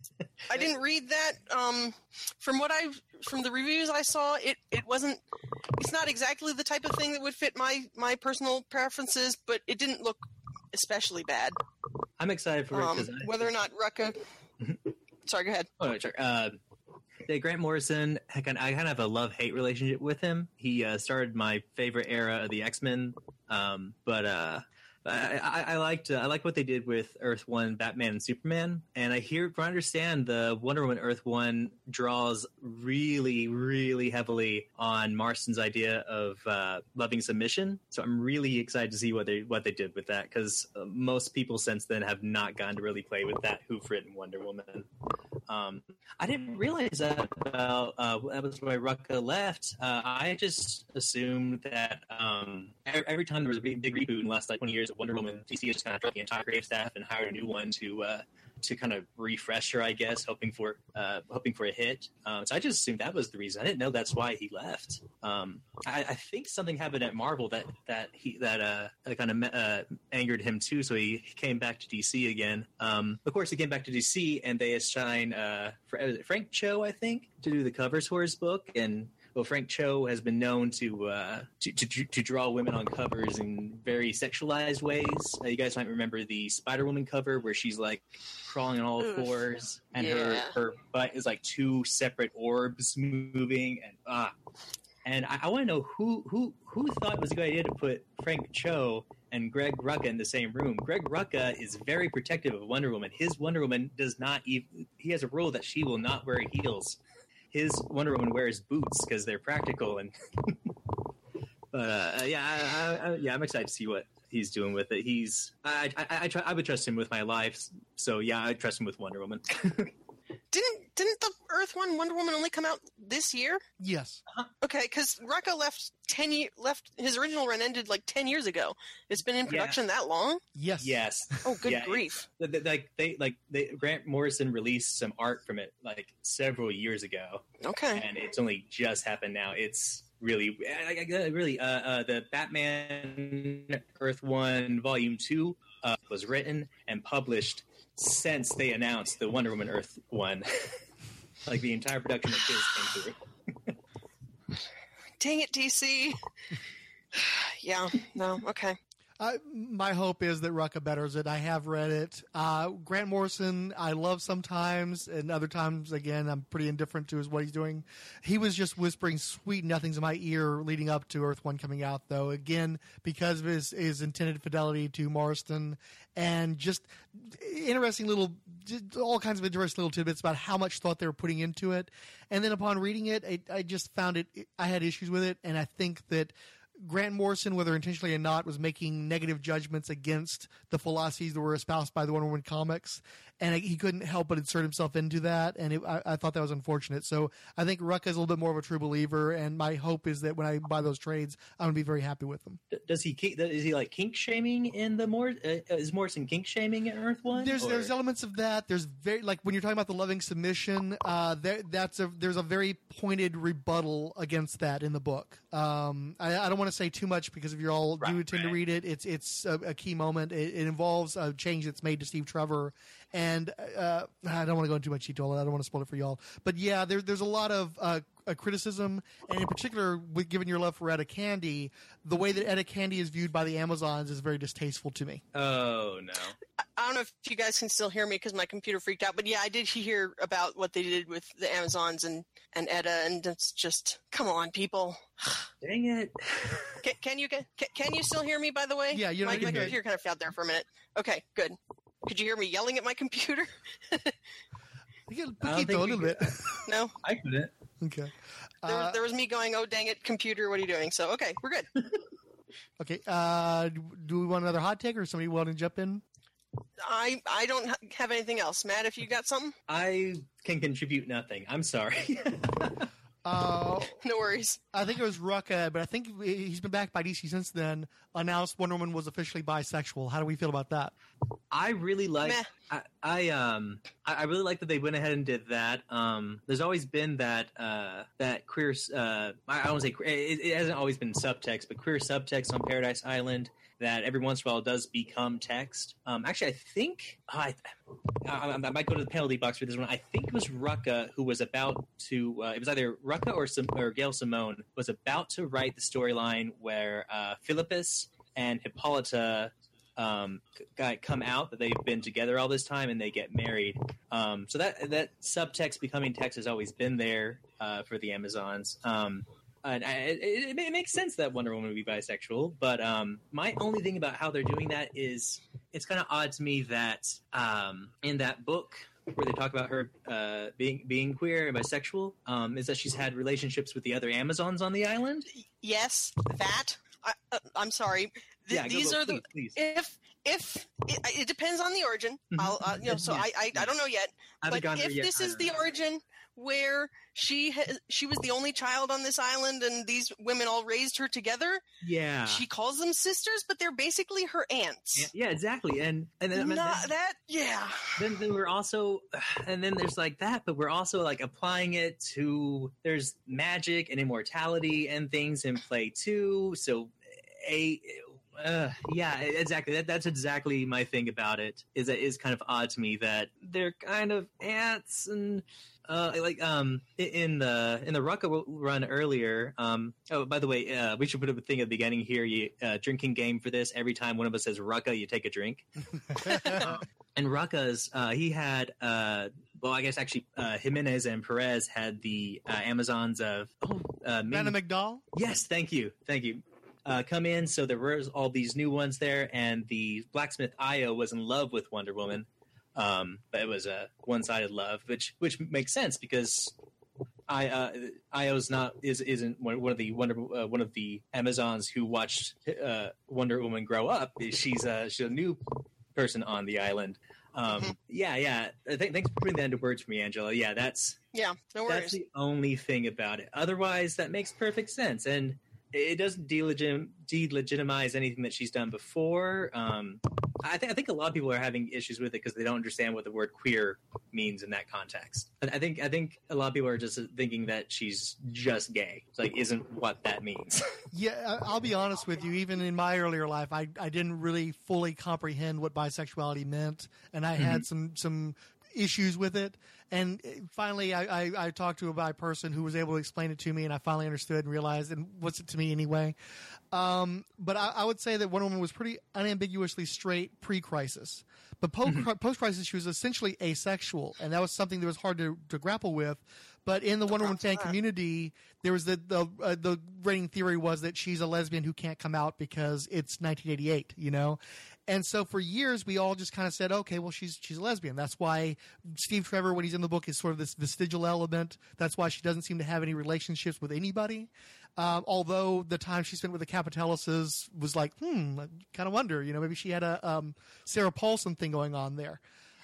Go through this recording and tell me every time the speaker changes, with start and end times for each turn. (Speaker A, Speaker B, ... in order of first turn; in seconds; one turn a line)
Speaker A: 0.2-0.7
Speaker B: 0.5-5.2
Speaker B: 5.8-11.6
Speaker A: 12.2-13.7
Speaker B: 12.7-14.2
Speaker B: 15.2-15.7
Speaker A: 15.8-16.6
Speaker A: 17.3-44.9
Speaker A: 45.5-94.3
Speaker B: 89.0-89.4
Speaker B: 89.9-90.5
Speaker A: 95.0-107.0
Speaker A: 107.5-110.6
Speaker A: 111.7-119.9
Speaker B: 120.5-123.6
Speaker C: 123.8-124.2
Speaker B: 124.6-130.4
Speaker A: 129.4-129.8
Speaker C: 130.6-131.0
Speaker A: 130.8-150.8
Speaker B: 131.4-132.2
Speaker B: 137.6-138.0
Speaker A: 151.4-153.7
Speaker B: 155.2-156.2
Speaker B: 157.1-158.8
Speaker C: 159.2-202.6
Speaker A: 202.7-207.9
Speaker C: 207.3-235.2
Speaker A: 218.0-218.6
Speaker A: 235.3-236.3
Speaker B: 236.8-245.4
Speaker A: 245.6-246.8
Speaker B: 246.8-254.1
Speaker C: 248.9-249.8
Speaker A: 249.3-249.7
Speaker C: 255.1-256.6
Speaker A: 255.4-256.3
Speaker B: 256.6-256.9
Speaker A: 257.0-257.5
Speaker C: 257.8-259.0
Speaker B: 258.6-261.7
Speaker C: 262.8-266.0
Speaker B: 266.8-269.6
Speaker A: 269.7-272.9
Speaker C: 273.2-274.0
Speaker B: 274.0-274.6
Speaker C: 274.7-280.9
Speaker A: 281.5-297.7
Speaker A: 298.2-335.3
Speaker B: 335.6-351.6
Speaker A: 338.5-339.6
Speaker A: 342.3-343.7
Speaker A: 344.4-345.6
Speaker A: 351.8-352.4
Speaker B: 352.3-355.1
Speaker A: 354.9-356.9
Speaker B: 356.3-358.0
Speaker A: 357.9-394.6
Speaker B: 386.2-386.8
Speaker C: 394.3-395.0
Speaker A: 395.1-406.5
Speaker A: 407.3-415.4
Speaker A: 415.9-421.0
Speaker B: 421.1-421.9
Speaker A: 421.7-440.8
Speaker C: 440.9-456.1
Speaker A: 447.4-447.6
Speaker C: 456.7-492.2
Speaker B: 467.2-467.7